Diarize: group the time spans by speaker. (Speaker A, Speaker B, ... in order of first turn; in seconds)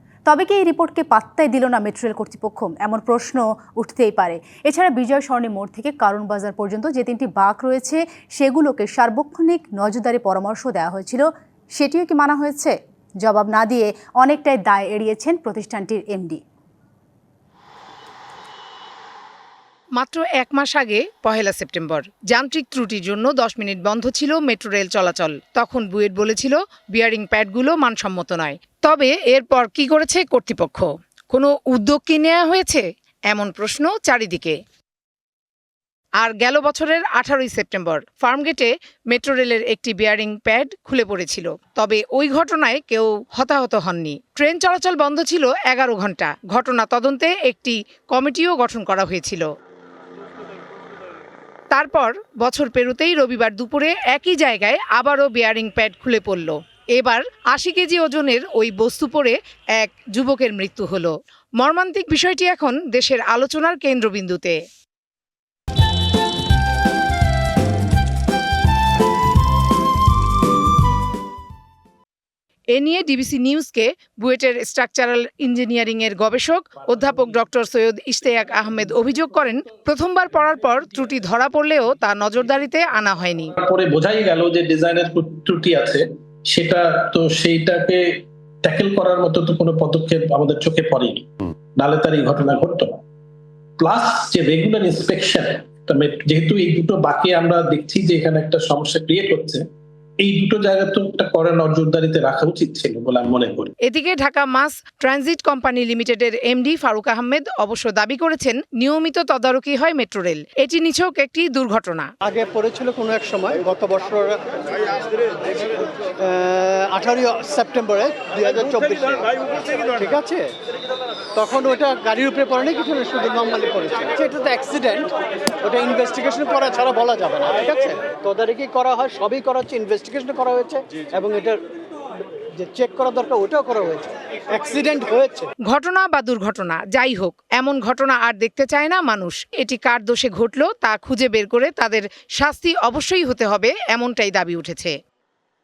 Speaker A: 0.3-11.2, 11.8-16.4
Speaker B: 20.0-34.6, 36.2-49.5, 51.7-64.6, 72.7-83.5, 103.8-112.1, 135.7-144.9
Speaker C: 83.6-93.0, 93.8-99.7, 100.2-103.7
Speaker D: 112.2-120.5, 121.3-131.6, 132.5-135.5